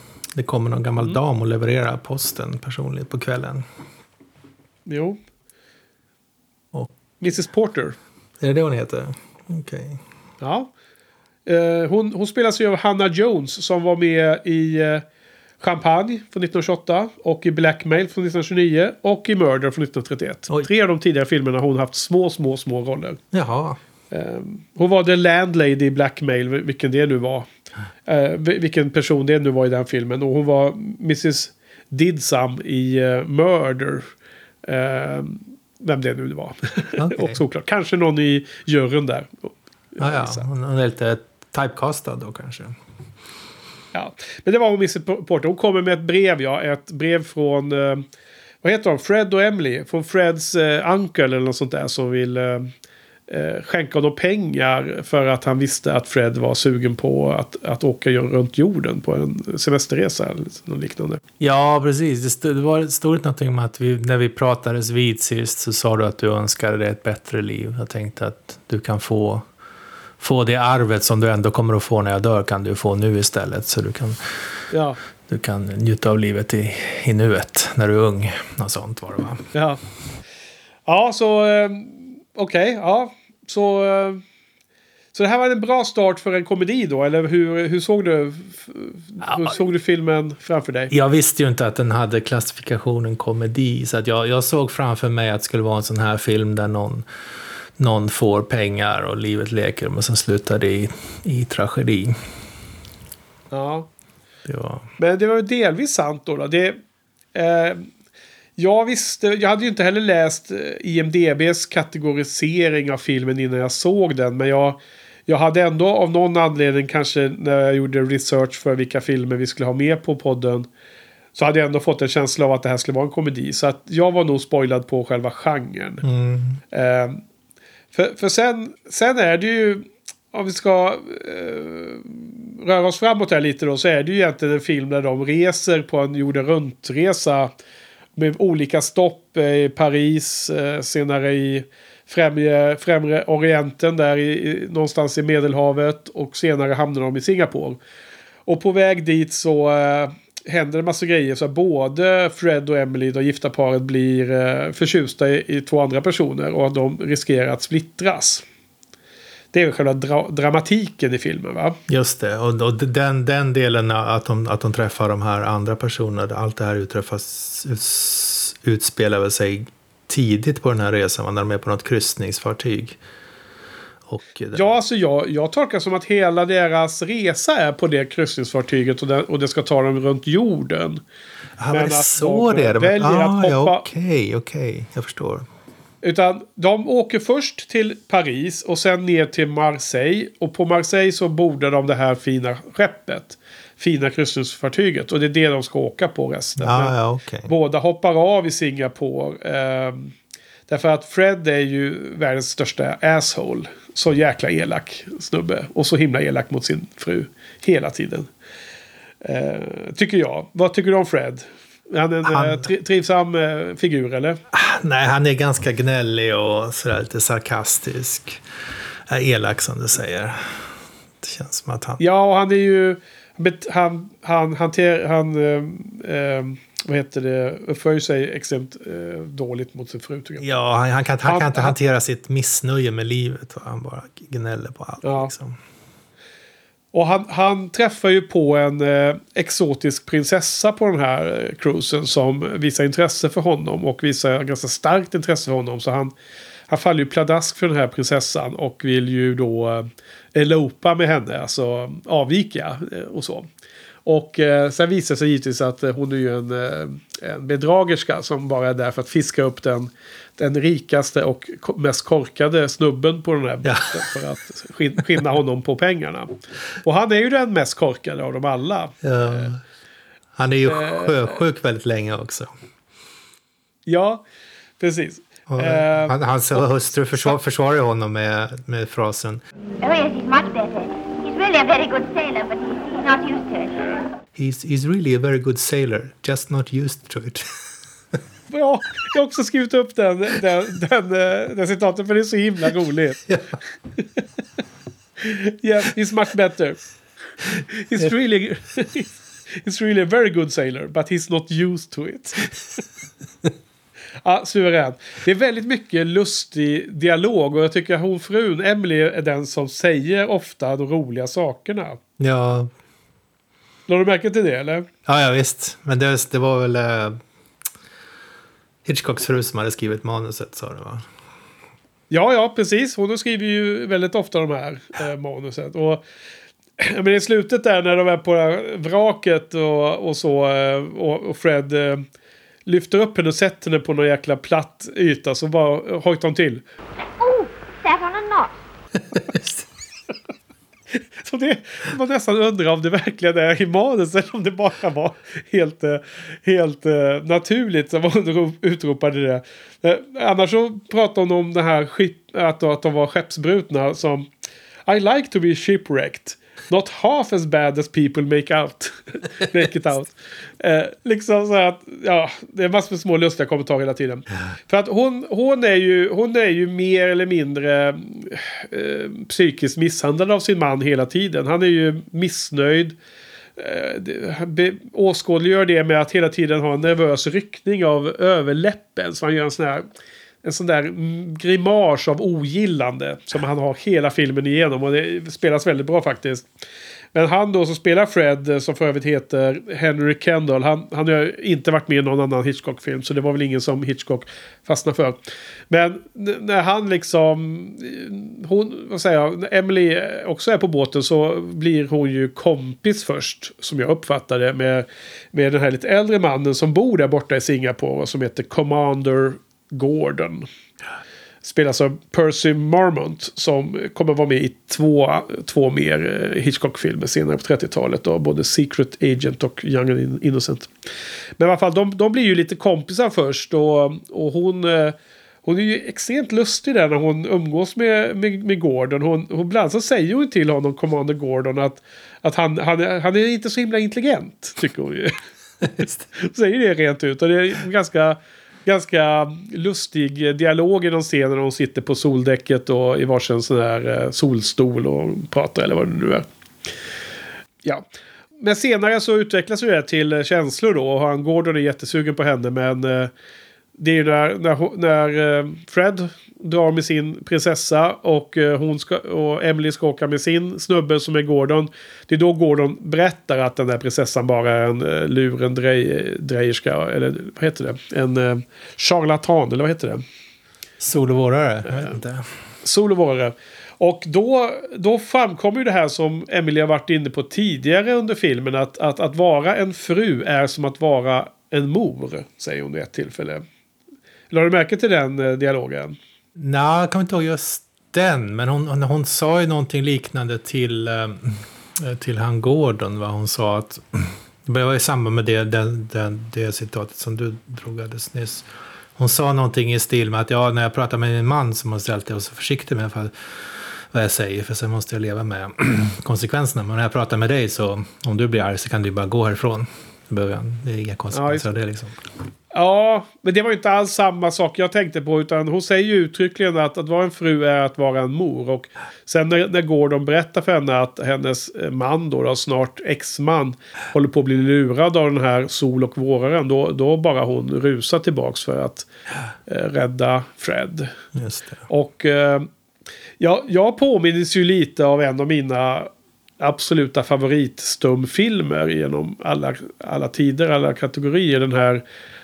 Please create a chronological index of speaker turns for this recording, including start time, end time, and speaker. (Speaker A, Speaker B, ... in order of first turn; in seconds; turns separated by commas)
Speaker A: 0.3-3.6, Speaker B: 4.8-5.2, Speaker B: 7.2-8.0, Speaker A: 8.4-10.0, Speaker B: 10.4-10.7, Speaker B: 11.4-15.0, Speaker B: 15.6-23.2, Speaker A: 23.3-23.8, Speaker B: 24.1-27.5, Speaker B: 28.1-34.1, Speaker B: 34.6-40.5, Speaker A: 37.0-37.4, Speaker A: 40.0-42.8, Speaker B: 43.9-48.0, Speaker B: 48.6-52.7, Speaker B: 53.3-61.2, Speaker A: 61.4-69.4, Speaker A: 70.2-74.4, Speaker B: 74.7-75.0, Speaker A: 75.3-79.5, Speaker B: 79.5-79.8, Speaker B: 80.8-84.2, Speaker B: 85.1-90.9, Speaker A: 90.9-97.0, Speaker A: 97.8-102.2, Speaker B: 103.5-103.9, Speaker A: 104.4-104.9, Speaker B: 105.0-106.8, Speaker B: 107.3-107.9, Speaker B: 108.6-120.7, Speaker B: 121.3-126.0, Speaker A: 126.0-126.6, Speaker B: 126.7-127.2, Speaker B: 127.9-137.5, Speaker B: 138.2-147.8, Speaker B: 148.4-158.4, Speaker B: 159.5-161.8, Speaker A: 161.9-173.0, Speaker A: 174.1-174.7, Speaker B: 174.5-181.0, Speaker A: 181.6-185.4, Speaker B: 181.7-183.8, Speaker B: 186.0-196.9, Speaker A: 196.6-197.5, Speaker B: 197.4-200.1, Speaker B: 200.7-208.3, Speaker B: 209.2-214.4, Speaker A: 212.2-212.7, Speaker A: 214.5-218.4, Speaker A: 219.1-222.0, Speaker B: 222.0-230.5, Speaker A: 230.4-235.6, Speaker B: 231.2-231.7, Speaker B: 235.0-235.3, Speaker B: 236.9-246.1, Speaker B: 246.7-253.5, Speaker B: 254.1-266.3, Speaker A: 263.6-264.0, Speaker B: 266.8-269.5, Speaker A: 269.0-269.6, Speaker A: 270.4-272.5, Speaker B: 270.7-271.1, Speaker B: 273.9-274.2, Speaker B: 274.8-276.1, Speaker A: 275.5-279.4, Speaker C: 279.8-283.8, Speaker A: 284.3-287.5, Speaker B: 288.5-293.3, Speaker B: 294.0-294.2, Speaker B: 295.2-296.8, Speaker B: 297.6-302.5, Speaker B: 304.2-312.0, Speaker A: 312.2-312.7, Speaker B: 313.9-314.9, Speaker A: 315.1-317.2, Speaker A: 318.8-321.1, Speaker B: 322.1-326.0, Speaker B: 326.8-332.0, Speaker B: 332.6-336.6, Speaker C: 337.2-338.5, Speaker A: 339.1-339.6, Speaker B: 340.9-354.3, Speaker B: 354.9-373.0, Speaker B: 373.6-379.9, Speaker B: 380.4-386.5, Speaker B: 387.1-410.5, Speaker B: 411.4-420.7, Speaker B: 421.4-435.1, Speaker A: 435.8-436.0, Speaker B: 436.1-446.3, Speaker B: 448.4-453.1, Speaker B: 453.8-470.0, Speaker A: 470.8-472.3, Speaker B: 472.6-483.4, Speaker B: 484.3-485.9, Speaker A: 486.4-512.0, Speaker B: 511.1-511.5, Speaker B: 512.5-528.9, Speaker B: 529.5-530.9, Speaker A: 531.1-531.6, Speaker B: 531.7-532.5, Speaker B: 533.2-541.8